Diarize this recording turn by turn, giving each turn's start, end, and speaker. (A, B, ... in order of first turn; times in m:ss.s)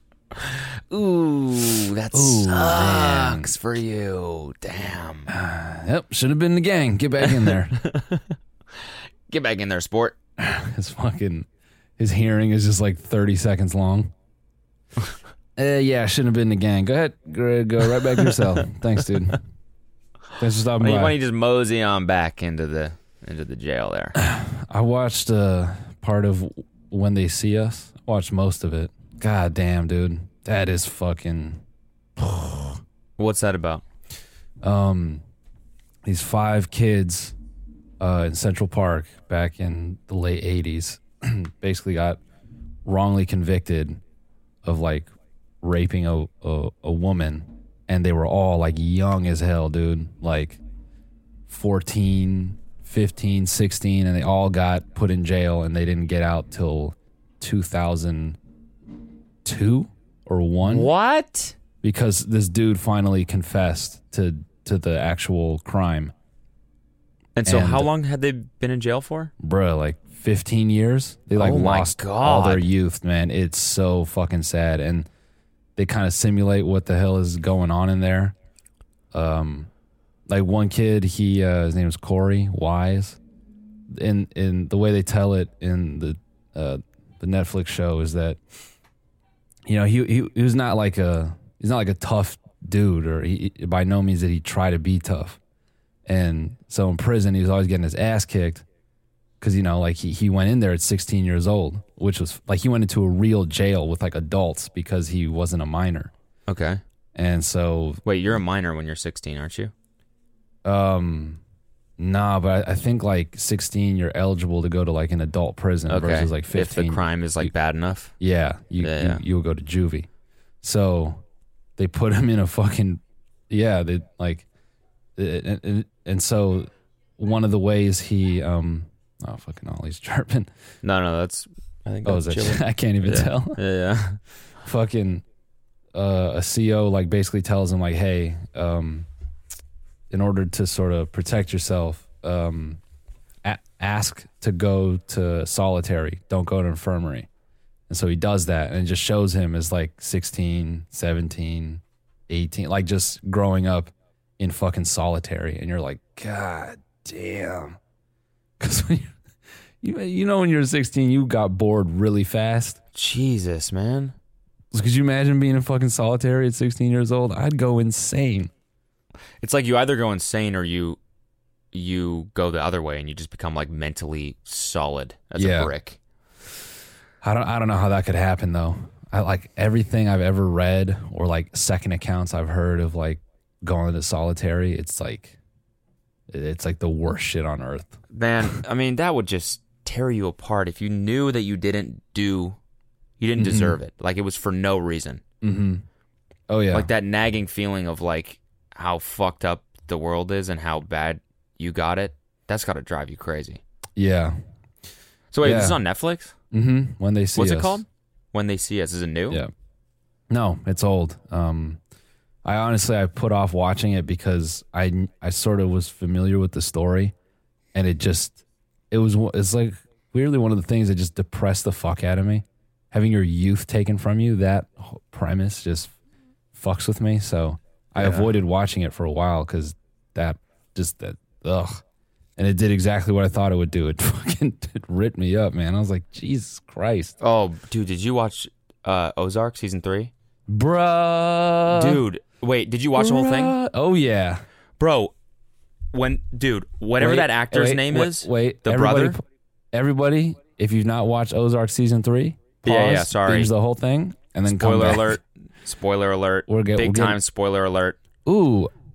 0:00.4-0:05.3 A
0:02.1-0:03.5 B
0:05.3-0:07.8 B
0:07.3-0:08.2 A
0:09.3-0:10.2 A
0:10.4-0:11.5 B
0:12.0-0:14.1 B
0:15.6-0:19.4 B
0:20.4-0:21.2 B
0:20.8-0:24.2 A
0:24.2-0:31.6 B
0:32.2-0:32.8 B
0:33.2-0:33.8 A
0:34.6-0:35.2 B
0:36.0-0:37.4 B
0:38.0-0:42.2 B
0:42.8-0:44.0 B
0:44.6-0:45.1 B
0:45.6-0:50.6 B
0:51.5-0:58.4 B
0:59.4-1:00.9 B
1:00.6-1:01.6 A
1:01.8-1:06.1 B
1:07.4-1:09.3 A
1:07.4-1:07.9 B
1:09.4-1:15.1 B
1:11.4-1:12.7 A
1:15.8-1:18.4 B
1:19.1-1:19.7 B
1:20.3-1:23.2 B
1:23.9-1:28.4 B
1:29.6-1:35.4 B
1:36.1-1:38.6 B
1:39.4-1:46.1 B
1:46.5-1:46.8 A
1:47.1-1:48.0 B
1:48.0-1:49.7 A
1:50.6-1:51.4 B
1:52.0-1:57.5 B
1:55.9-1:58.1 A
1:58.2-2:00.1 B
1:58.8-1:59.2 A
2:00.6-2:01.2 B
2:01.8-2:04.5 B
2:05.2-2:10.5 B
2:10.8-2:14.2 A
2:12.0-2:13.6 B
2:14.6-2:15.2 B
2:15.9-2:19.1 B
2:20.1-2:22.8 B
2:23.4-2:27.3 B
2:27.9-2:37.8 B
2:38.6-2:39.1 B
2:39.8-2:42.8 B
2:43.0-2:44.1 A
2:44.7-2:48.5 B
2:49.4-2:51.0 A
2:51.7-2:56.0 A
2:55.4-2:55.7 B
2:57.2-3:05.4 B
3:06.3-3:08.0 B
3:08.1-3:12.6 A
3:13.2-3:15.2 A
3:13.4-3:13.8 B
3:15.4-3:15.8 B
3:16.5-3:16.9 B
3:16.7-3:23.6 A
3:24.0-3:24.4 B
3:25.3-3:26.4 A
3:25.4-3:25.8 B
3:26.5-3:27.8 B
3:27.4-3:29.4 A
3:30.3-3:31.8 B
3:32.4-3:37.1 B
3:37.7-3:45.9 B
3:46.5-3:51.8 B
3:48.0-3:48.3 A
3:52.4-3:57.1 B
3:57.2-4:00.1 A
4:00.5-4:02.0 B
4:01.7-4:03.6 A
4:03.0-4:04.4 B
4:04.8-4:05.1 A
4:05.9-4:09.2 A
4:07.0-4:09.2 B
4:09.7-4:15.2 B
4:12.6-4:13.5 A
4:14.5-4:18.0 A
4:16.5-4:17.2 B
4:18.2-4:18.7 B